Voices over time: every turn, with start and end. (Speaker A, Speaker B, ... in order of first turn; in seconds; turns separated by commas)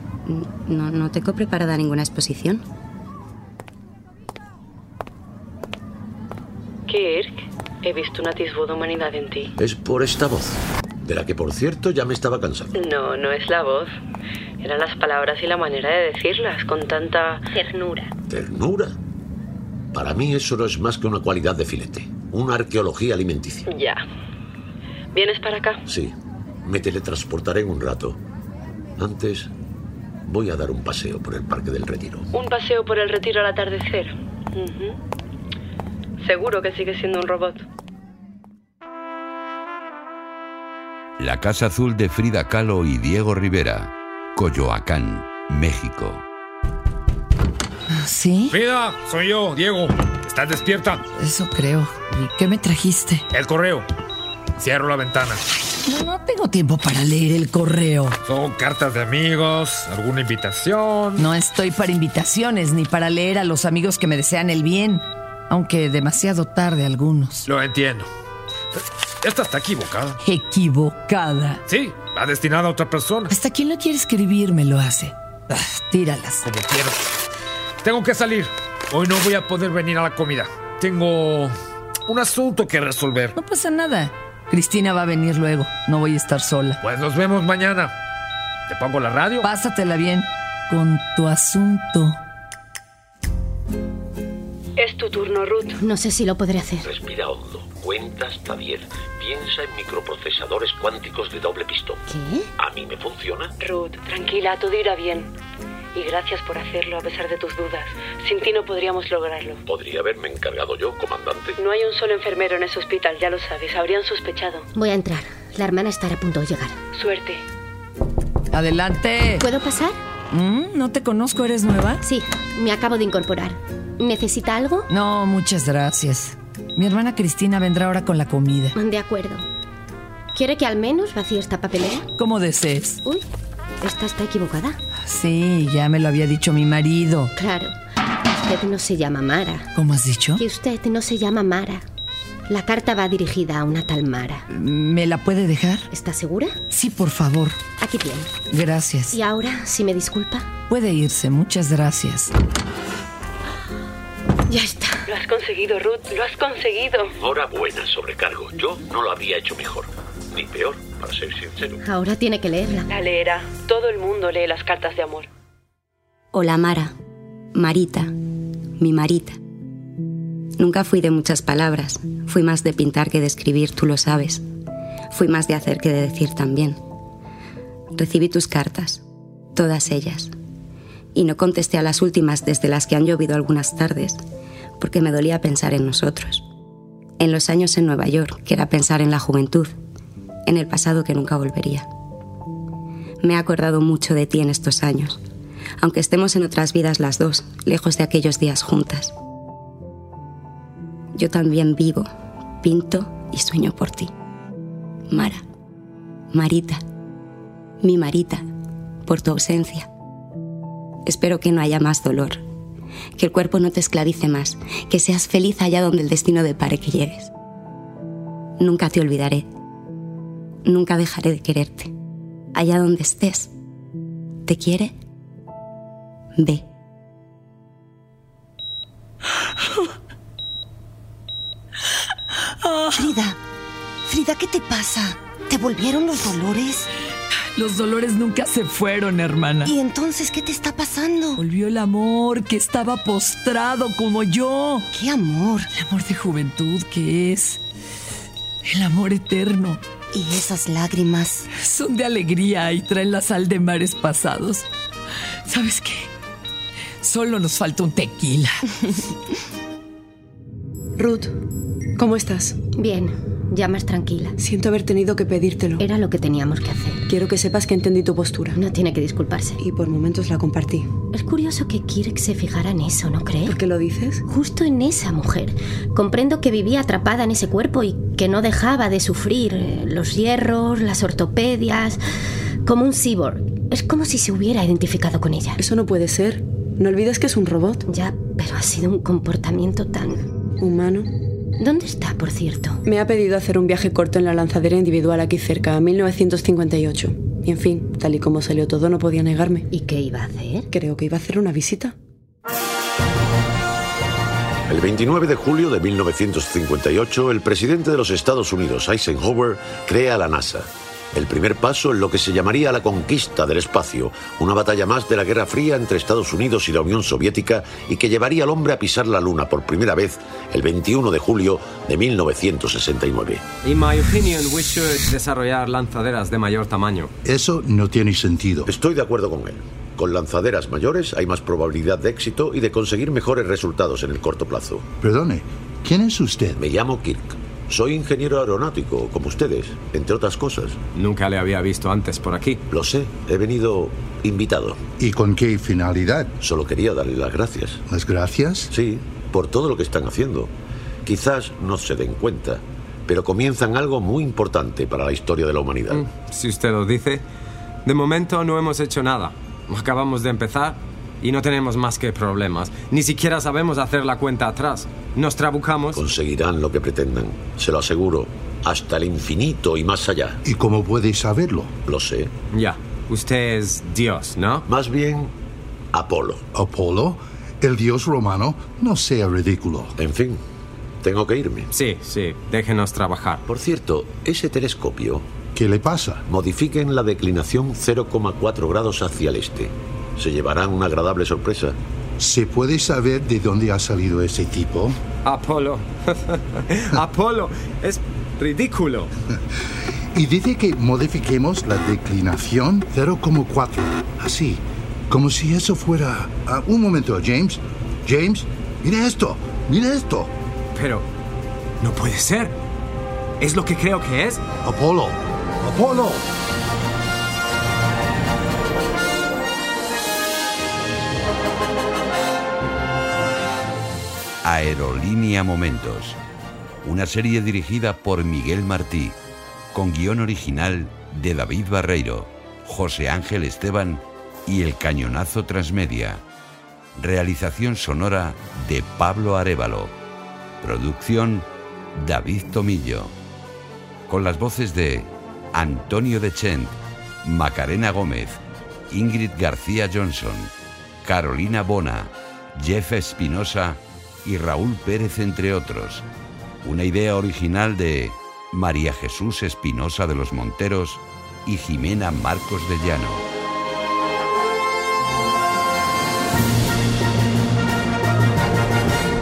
Speaker A: 0.3-2.6, Speaker B: 6.9-9.5, Speaker C: 9.6-12.8, Speaker B: 12.7-13.9, Speaker B: 14.6-17.5, Speaker D: 17.5-18.1, Speaker C: 18.3-19.0, Speaker C: 19.9-23.7, Speaker B: 23.7-24.1, Speaker B: 25.1-25.8, Speaker C: 25.9-28.2, Speaker C: 29.0-29.5, Speaker C: 30.2-32.3, Speaker B: 32.3-35.0, Speaker B: 36.2-37.6, Speaker E: 41.2-46.2, Speaker F: 48.0-48.6, Speaker G: 48.5-51.0, Speaker F: 51.2-53.3, Speaker G: 53.3-53.9, Speaker G: 54.6-55.4, Speaker F: 55.9-58.2, Speaker G: 58.3-61.2, Speaker F: 61.2-67.5, Speaker G: 67.5-68.1, Speaker G: 69.2-70.2, Speaker F: 70.2-71.6, Speaker G: 71.7-73.3, Speaker F: 73.3-76.5, Speaker G: 76.4-77.0, Speaker G: 77.8-81.5, Speaker G: 82.1-83.3, Speaker F: 83.4-86.8, Speaker G: 86.8-87.9, Speaker G: 88.7-89.5, Speaker F: 89.4-92.2, Speaker B: 94.8-95.8, Speaker D: 95.8-96.9, Speaker C: 96.8-102.0, Speaker D: 102.1-102.5, Speaker C: 102.6-103.5, Speaker B: 103.6-105.3, Speaker B: 105.9-109.6, Speaker C: 109.7-111.6, Speaker B: 111.6-114.7, Speaker D: 114.8-116.8, Speaker B: 116.9-117.5, Speaker F: 118.5-119.5, Speaker D: 119.4-120.0, Speaker F: 120.3-122.0, Speaker D: 122.0-124.9, Speaker F: 124.9-128.8, Speaker D: 128.8-129.4, Speaker D: 130.3-132.1, Speaker F: 132.2-133.0, Speaker D: 133.8-134.8, Speaker F: 135.1-137.3, Speaker D: 137.3-139.7, Speaker F: 139.8-140.4, Speaker D: 140.4-141.8, Speaker D: 142.5-144.5, Speaker F: 144.5-145.9, Speaker D: 145.9-146.6, Speaker F: 146.7-147.6, Speaker D: 147.8-148.3, Speaker F: 148.5-149.2, Speaker D: 149.1-150.5, Speaker F: 150.7-152.3, Speaker D: 154.5-155.0, Speaker B: 155.1-157.1, Speaker C: 157.2-161.8, Speaker D: 161.8-162.9, Speaker B: 162.9-165.3, Speaker A: 166.3-166.9, Speaker A: 167.6-168.1, Speaker A: 168.8-169.4, Speaker A: 170.6-174.4, Speaker A: 175.1-176.8, Speaker A: 177.9-179.0, Speaker A: 179.6-180.3, Speaker A: 181.2-184.2, Speaker A: 184.8-186.4, Speaker A: 187.2-189.7, Speaker A: 190.5-191.9, Speaker A: 193.2-195.2, Speaker A: 195.8-199.1, Speaker A: 201.2-202.1, Speaker A: 202.6-204.1, Speaker A: 205.1-205.4, Speaker A: 206.3-206.8, Speaker A: 207.8-208.4, Speaker A: 209.1-209.9, Speaker A: 211.1-212.4, Speaker A: 213.2-217.3, Speaker A: 218.6-219.5, Speaker A: 220.7-221.9, Speaker A: 222.5-223.5, Speaker A: 224.5-224.9, Speaker A: 226.4-226.6, Speaker F: 232.6-233.2, Speaker H: 233.0-233.3, Speaker H: 234.1-234.9, Speaker H: 235.5-236.8, Speaker F: 237.5-239.8, Speaker H: 239.7-241.4, Speaker F: 241.3-244.9, Speaker H: 245.0-245.6, Speaker F: 245.7-247.6, Speaker F: 248.7-249.8, Speaker H: 250.3-251.0, Speaker F: 251.5-254.7, Speaker F: 255.5-256.1, Speaker F: 257.0-258.9, Speaker I: 261.0-261.3, Speaker I: 262.0-262.6, Speaker D: 262.8-264.4, Speaker I: 264.4-265.8, Speaker D: 265.8-267.1, Speaker I: 267.1-268.6, Speaker D: 268.5-269.6, Speaker I: 269.6-270.9, Speaker D: 271.1-273.6, Speaker I: 273.5-274.2, Speaker D: 274.3-282.0, Speaker D: 282.6-285.6, Speaker I: 285.6-287.8, Speaker D: 287.9-290.2, Speaker I: 290.6-291.1, Speaker D: 291.6-292.8, Speaker I: 292.9-299.7, Speaker D: 299.7-300.7, Speaker I: 300.7-301.9, Speaker C: 304.7-323.4, Speaker J: 323.6-327.1, Speaker K: 327.2-328.7, Speaker C: 328.7-334.9, Speaker K: 335.0-336.6, Speaker C: 336.6-340.8, Speaker J: 340.9-342.6, Speaker C: 342.7-344.8, Speaker K: 345.0-346.3, Speaker C: 346.4-347.8, Speaker K: 347.9-348.7, Speaker C: 348.7-350.5, Speaker C: 351.1-356.1, Speaker J: 355.9-357.2, Speaker J: 357.9-366.0, Speaker C: 365.9-370.4, Speaker K: 370.4-371.7, Speaker C: 371.9-372.3, Speaker J: 372.5-374.6, Speaker C: 374.7-375.3, Speaker C: 375.9-376.4, Speaker K: 376.5-380.0, Speaker C: 380.0-380.4, Speaker C: 381.0-381.7, Speaker J: 381.7-383.4, Speaker C: 383.5-385.3, Speaker K: 385.6-386.2, Speaker C: 386.3-391.8, Speaker K: 392.2-395.0, Speaker J: 395.2-399.1, Speaker K: 400.1-410.3, Speaker J: 410.8-411.1, Speaker J: 411.8-412.6, Speaker J: 413.4-414.4, Speaker K: 414.6-416.3, Speaker E: 424.4-426.2, Speaker E: 426.8-429.2, Speaker E: 429.7-436.2, Speaker E: 437.0-439.9, Speaker E: 440.6-443.1, Speaker E: 444.1-450.5, Speaker E: 451.0-456.1, Speaker E: 456.6-463.3